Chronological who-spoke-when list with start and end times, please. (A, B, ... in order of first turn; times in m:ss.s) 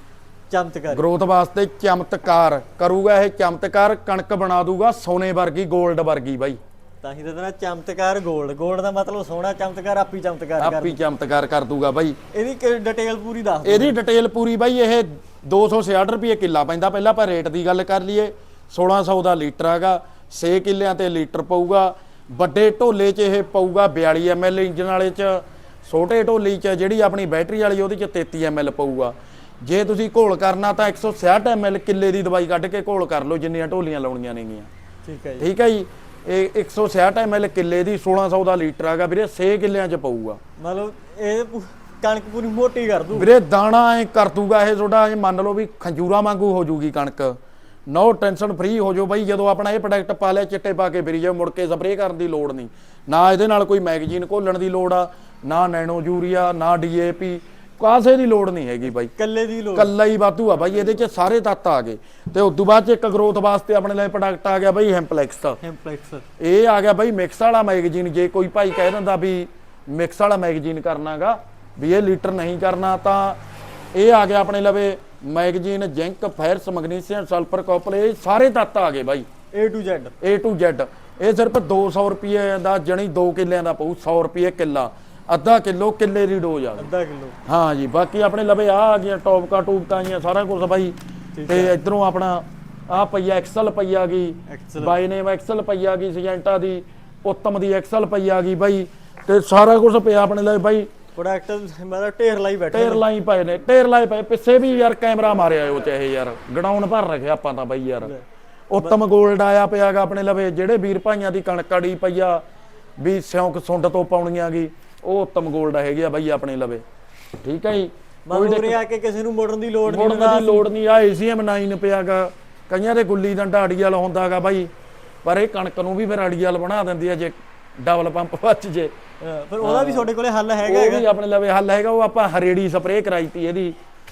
0:00.5-0:01.0 A
0:00.9-0:06.6 B
0:07.0-0:11.0 A
0:10.6-0:12.2 B
0:12.3-0:14.0 A
0:13.6-0:34.7 B
0:35.1-0:35.5 A
0:35.4-0:40.4 B
0:40.6-0:43.3 A
0:43.2-0:47.4 B
0:47.9-0:59.1 B
0:59.1-0:59.9 A
0:59.8-1:05.6 B
1:05.6-1:06.2 A
1:06.4-1:13.4 B
1:14.0-1:19.3 B
1:19.5-1:20.1 A
1:20.2-1:26.9 B
1:26.8-1:27.4 A
1:27.5-1:31.0 B
1:31.4-1:31.8 A
1:31.5-1:40.9 B
1:34.5-1:35.0 A
1:41.2-1:43.0 A
1:42.7-1:48.1 B
1:48.7-1:52.4 B
1:53.0-1:56.8 B
1:57.4-1:58.8 B
1:58.3-2:00.6 A
1:59.9-2:04.7 B
2:05.2-2:08.9 B
2:09.2-2:11.1 A
2:09.6-2:10.1 B
2:10.6-2:13.7 B